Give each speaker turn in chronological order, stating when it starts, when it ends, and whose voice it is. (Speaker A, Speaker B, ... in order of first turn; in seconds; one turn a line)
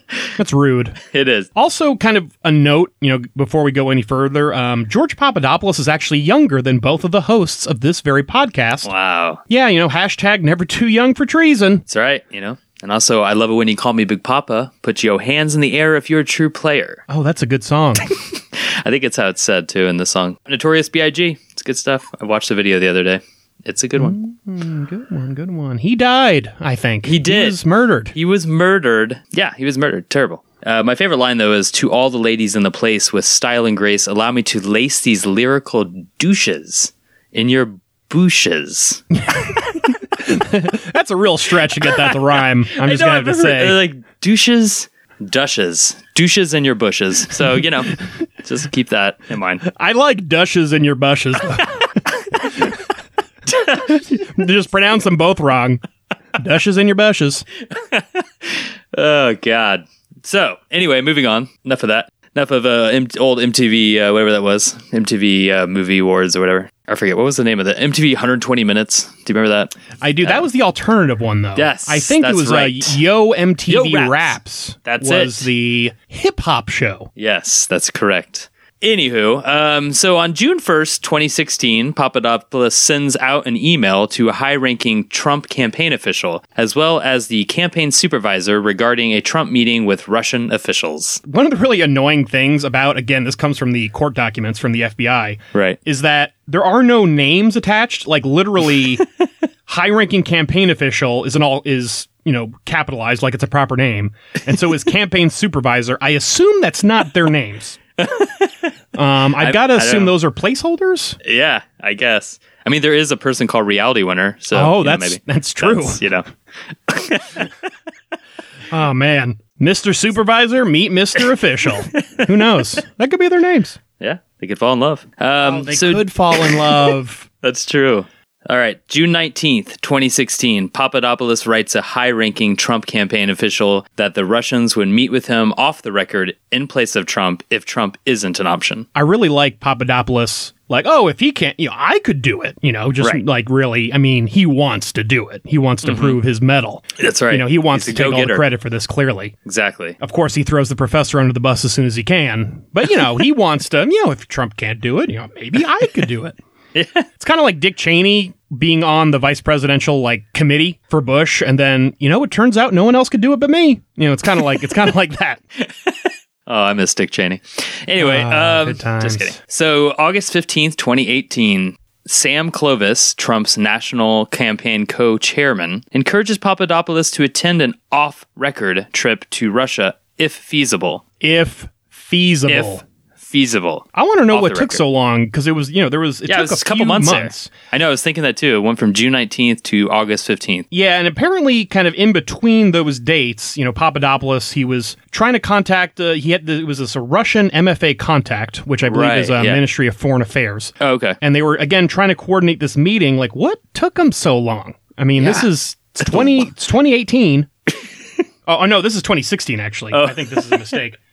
Speaker A: 0.3-1.0
Speaker B: 1.1-1.5
Speaker A: 1.5-8.9
Speaker B: 8.8-9.4
Speaker A: 9.5-11.8
Speaker B: 11.9-17.0
Speaker A: 17.1-18.1
Speaker B: 18.1-24.1
Speaker A: 24.0-28.1
Speaker B: 27.0-27.6
Speaker B: 28.1-39.0
Speaker A: 39.1-43.8
Speaker B: 41.8-49.6
Speaker A: 49.6-52.8
Speaker A: 53.5-55.8
Speaker A: 56.3-57.4
Speaker B: 57.7-70.4
Speaker A: 70.0-77.1
Speaker B: 71.5-73.0
Speaker B: 73.7-75.5
Speaker B: 77.2-91.2
Speaker A: 91.2-99.0
Speaker A: 99.7-107.8
Speaker B: 108.0-108.7
Speaker A: 108.9-111.2
Speaker B: 109.4-110.1
Speaker B: 111.2-117.5
Speaker A: 114.5-116.0
Speaker A: 118.7-123.8
Speaker B: 124.0-126.9
Speaker A: 125.4-127.3
Speaker B: 127.4-138.8
Speaker A: 138.9-149.3
Speaker B: 145.8-146.2
Speaker B: 147.0-148.4
Speaker B: 149.4-150.0
Speaker A: 150.0-156.4
Speaker B: 156.7-157.1
Speaker A: 157.2-165.4
Speaker B: 165.6-181.0
Speaker A: 168.0-169.4
Speaker A: 181.2-182.8
Speaker B: 182.5-184.8
Speaker A: 183.9-187.5
Speaker B: 186.2-190.7
Speaker A: 190.7-207.5
Speaker B: 198.9-199.6
Speaker B: 200.8-201.2
Speaker B: 205.2-205.4
Speaker B: 206.0-206.5
Speaker A: 208.4-211.0
Speaker B: 209.9-210.8